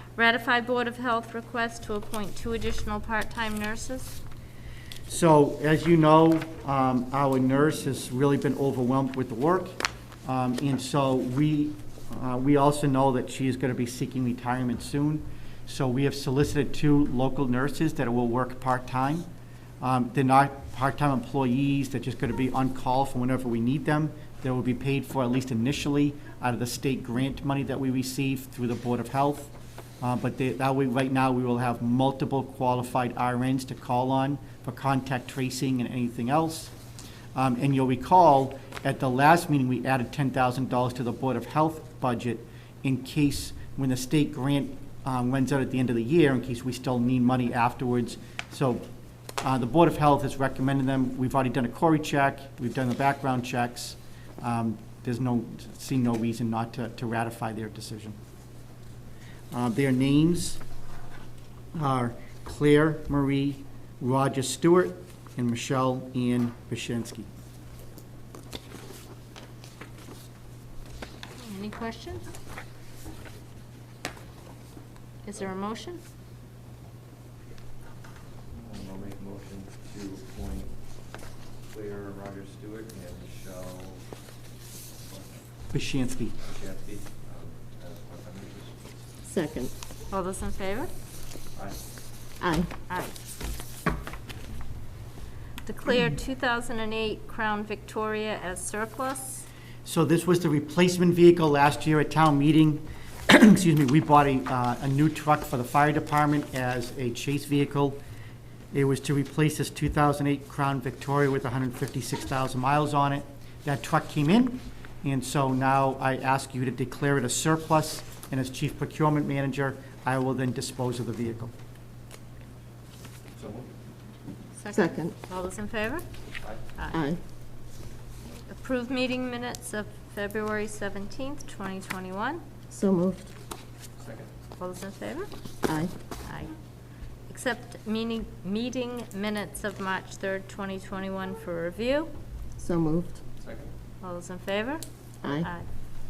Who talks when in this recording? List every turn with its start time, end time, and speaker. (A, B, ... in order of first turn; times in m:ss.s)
0:00.1-0:04.2 A
0:05.1-0:19.3 B
0:19.8-0:36.7 B
0:37.3-0:48.8 B
0:49.4-0:58.2 B
0:59.5-1:00.6 B
1:01.7-1:07.3 B
1:11.4-1:12.2 A
1:15.2-1:16.0 A
1:18.5-1:20.7 C
1:21.7-1:24.0 C
1:25.0-1:25.4 C
1:25.7-1:26.4 B
1:26.4-1:28.8 C
1:29.2-1:29.7 D
1:30.1-1:30.9 A
1:31.5-1:31.8 C
1:32.4-1:32.7 D
1:32.9-1:33.1 A
1:35.6-1:39.4 A
1:39.8-1:48.0 B
1:48.7-2:01.5 B
2:03.3-2:03.7 C
2:04.6-2:06.0 A
2:04.7-2:05.1 D
2:06.9-2:07.2 D
2:08.5-2:12.4 A
2:12.7-2:13.3 D
2:14.0-2:14.3 C
2:14.6-2:15.3 A
2:15.6-2:15.9 D
2:16.2-2:16.5 A
2:17.3-2:22.1 A
2:22.6-2:23.2 D
2:23.4-2:23.7 C
2:24.0-2:25.7 A
2:25.2-2:25.5 D